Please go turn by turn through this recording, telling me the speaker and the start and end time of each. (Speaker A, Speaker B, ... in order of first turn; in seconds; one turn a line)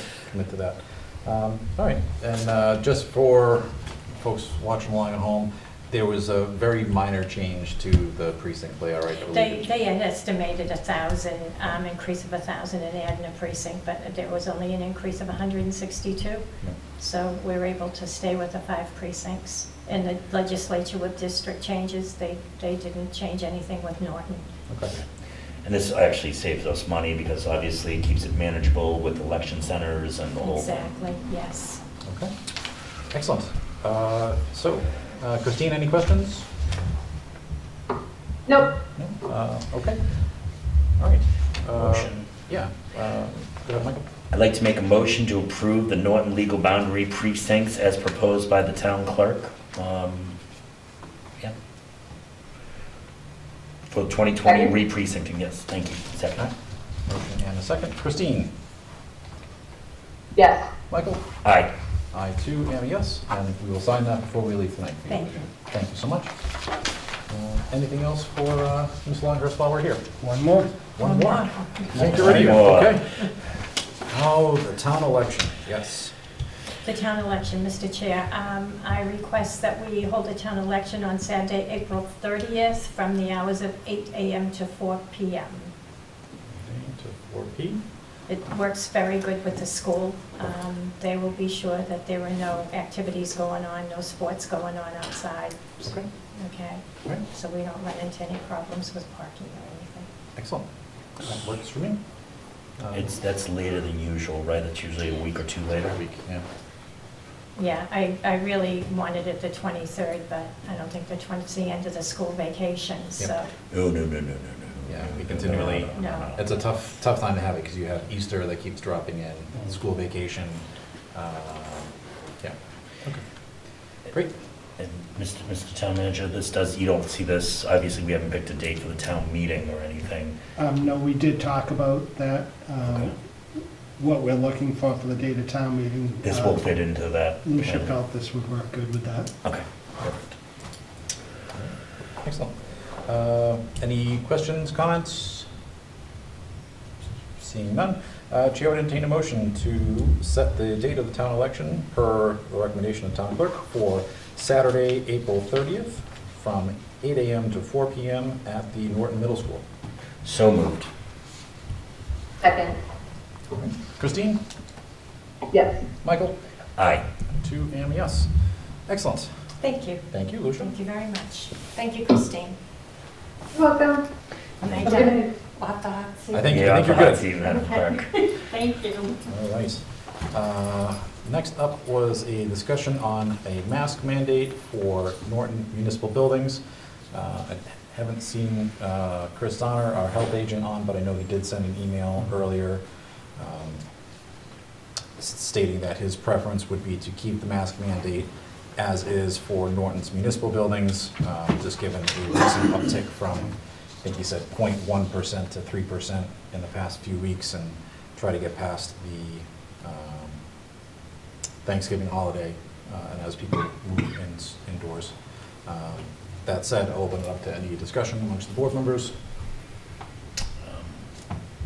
Speaker A: 0.3-9.7
Speaker B: 9.3-16.4
Speaker B: 17.0-24.5
Speaker A: 24.7-24.9
Speaker C: 25.6-30.9
Speaker B: 30.4-31.8
Speaker A: 32.0-32.3
Speaker A: 33.1-36.5
Speaker D: 38.5-38.7
Speaker A: 39.0-40.0
Speaker A: 41.0-44.1
Speaker C: 41.8-42.1
Speaker C: 44.3-50.4
Speaker C: 53.9-56.5
Speaker D: 54.4-54.7
Speaker A: 57.1-58.5
Speaker D: 60.4-60.7
Speaker A: 60.9-61.2
Speaker C: 61.4-61.7
Speaker A: 62.1-66.3
Speaker B: 65.1-65.5
Speaker A: 67.3-70.0
Speaker E: 70.2-70.7
Speaker A: 71.0-73.1
Speaker B: 71.0-72.2
Speaker C: 71.9-73.0
Speaker A: 74.1-76.1
Speaker B: 76.8-85.7
Speaker A: 86.5-87.8
Speaker B: 88.3-95.6
Speaker B: 96.4-100.1
Speaker A: 100.4-100.7
Speaker A: 101.2-102.0
Speaker A: 102.8-103.1
Speaker C: 102.9-106.0
Speaker A: 105.9-106.4
Speaker B: 107.6-113.5
Speaker C: 113.7-116.4
Speaker A: 114.9-123.2
Speaker B: 116.0-116.3
Speaker C: 124.8-130.4
Speaker E: 130.6-133.1
Speaker C: 132.8-133.1
Speaker E: 134.0-136.7
Speaker C: 136.2-137.9
Speaker E: 137.4-139.3
Speaker C: 139.4-140.3
Speaker A: 141.6-145.5
Speaker A: 147.3-159.6
Speaker C: 160.2-160.9
Speaker D: 162.4-162.8
Speaker A: 163.5-164.4
Speaker D: 165.5-165.8
Speaker A: 166.0-166.4
Speaker C: 166.8-167.0
Speaker A: 167.4-168.3
Speaker A: 168.9-169.3
Speaker B: 169.6-170.0
Speaker A: 170.1-170.7
Speaker B: 170.6-172.6
Speaker D: 173.5-174.1
Speaker B: 174.6-176.4
Speaker D: 174.8-175.3
Speaker A: 176.3-177.2
Speaker C: 176.5-178.2
Speaker B: 177.5-179.2
Speaker A: 179.3-192.8
Speaker A: 193.4-193.8
Speaker A: 195.2-210.4
Speaker A: 211.6-215.2
Speaker A: 215.7-219.1
Speaker C: 220.6-221.0